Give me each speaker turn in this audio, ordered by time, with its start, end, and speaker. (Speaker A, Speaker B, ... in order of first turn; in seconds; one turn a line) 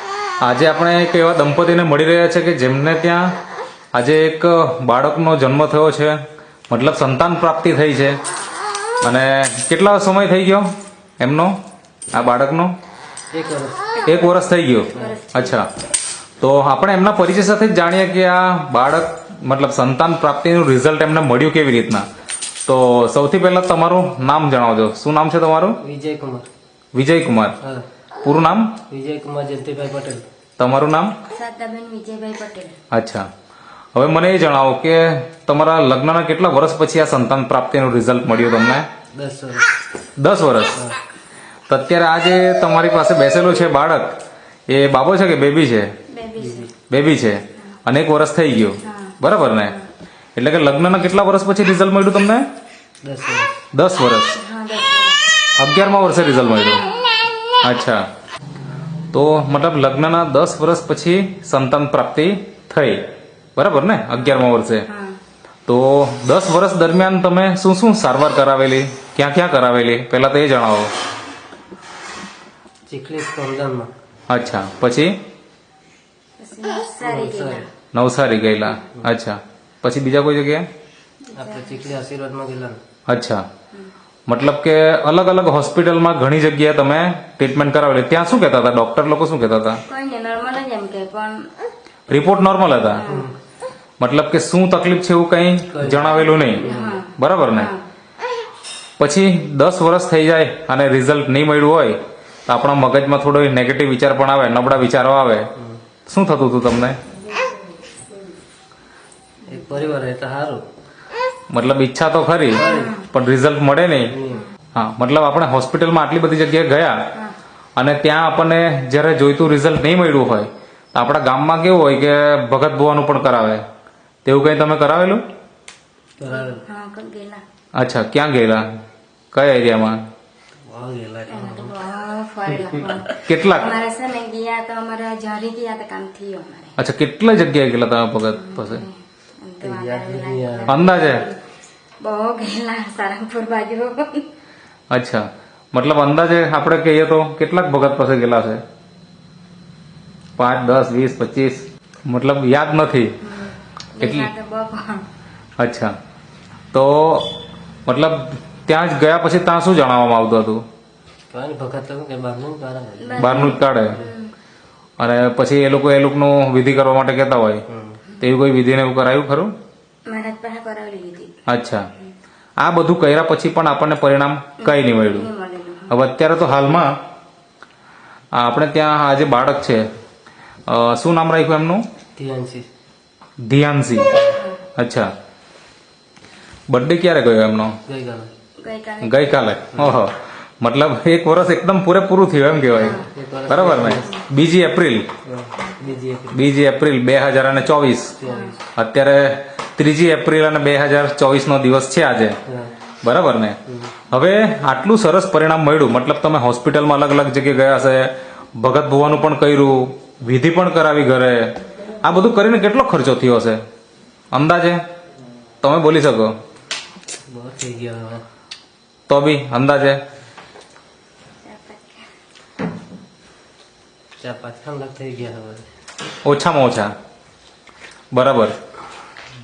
Speaker A: 0.4-3.4
Speaker A: 3.9-8.2
Speaker A: 9.0-10.7
Speaker A: 11.2-11.6
Speaker A: 12.1-12.7
Speaker B: 13.3-14.0
Speaker A: 14.1-15.7
Speaker C: 15.0-15.7
Speaker A: 16.4-22.1
Speaker A: 22.6-25.8
Speaker B: 25.8-26.5
Speaker A: 26.9-27.6
Speaker A: 28.2-28.8
Speaker B: 28.9-30.2
Speaker A: 30.6-31.1
Speaker C: 31.3-32.8
Speaker A: 32.9-33.3
Speaker A: 34.0-38.9
Speaker B: 39.1-39.6
Speaker A: 40.2-40.9
Speaker A: 41.7-45.9
Speaker C: 46.1-46.7
Speaker B: 46.4-46.7
Speaker A: 46.9-49.8
Speaker C: 48.8-49.2
Speaker A: 50.4-52.5
Speaker B: 53.0-53.6
Speaker A: 53.7-54.4
Speaker C: 54.4-55.3
Speaker A: 55.6-56.8
Speaker C: 56.6-57.1
Speaker A: 57.6-58.0
Speaker A: 59.1-64.9
Speaker C: 64.2-65.2
Speaker A: 65.7-70.9
Speaker B: 72.9-73.9
Speaker A: 74.3-75.2
Speaker C: 76.4-77.7
Speaker B: 77.0-77.7
Speaker A: 77.9-80.7
Speaker C: 81.3-81.8
Speaker B: 81.4-82.8
Speaker A: 83.1-83.4
Speaker A: 84.3-89.8
Speaker C: 89.9-91.5
Speaker A: 92.1-93.0
Speaker C: 92.9-93.3
Speaker B: 93.1-93.3
Speaker A: 94.0-97.7
Speaker B: 95.7-97.0
Speaker C: 96.3-97.8
Speaker A: 99.0-105.5
Speaker A: 106.1-107.0
Speaker B: 109.5-110.6
Speaker A: 111.5-114.1
Speaker B: 112.6-113.0
Speaker C: 112.6-113.1
Speaker B: 114.1-114.5
Speaker A: 114.8-117.0
Speaker A: 117.8-123.6
Speaker A: 124.2-125.2
Speaker B: 126.2-126.6
Speaker C: 126.3-127.4
Speaker A: 127.8-128.7
Speaker A: 129.3-130.0
Speaker B: 130.7-131.7
Speaker C: 131.3-136.8
Speaker A: 133.2-133.8
Speaker A: 136.8-138.8
Speaker C: 138.3-141.4
Speaker B: 139.6-140.8
Speaker A: 140.7-141.3
Speaker C: 142.0-144.3
Speaker A: 144.9-148.6
Speaker A: 150.4-153.2
Speaker C: 153.2-155.1
Speaker A: 154.0-154.3
Speaker A: 155.6-155.9
Speaker A: 156.7-157.3
Speaker A: 157.9-160.6
Speaker B: 161.3-164.1
Speaker C: 163.1-164.3
Speaker A: 163.2-164.0
Speaker A: 165.0-167.6
Speaker B: 167.7-168.0
Speaker A: 168.2-169.5
Speaker C: 170.1-171.3
Speaker A: 171.5-171.9
Speaker A: 172.6-175.3
Speaker C: 174.6-176.0
Speaker A: 175.9-176.9
Speaker A: 178.3-179.9
Speaker A: 180.7-181.8
Speaker B: 182.2-182.7
Speaker A: 183.4-184.2
Speaker A: 184.8-185.1
Speaker A: 186.7-187.8
Speaker B: 187.9-188.3
Speaker C: 188.6-189.3
Speaker A: 189.0-195.1
Speaker C: 192.7-193.1
Speaker B: 193.0-194.2
Speaker B: 195.3-196.5
Speaker A: 196.3-198.2
Speaker B: 198.2-198.6
Speaker C: 198.3-198.6
Speaker A: 198.8-202.4
Speaker B: 202.5-202.7
Speaker A: 203.0-203.6
Speaker B: 203.7-203.9
Speaker A: 204.1-213.6
Speaker A: 214.3-214.8
Speaker A: 215.6-216.3
Speaker B: 217.3-218.2
Speaker A: 219.1-220.0
Speaker C: 221.4-222.0
Speaker B: 224.2-225.7
Speaker A: 226.2-226.9
Speaker A: 228.1-228.6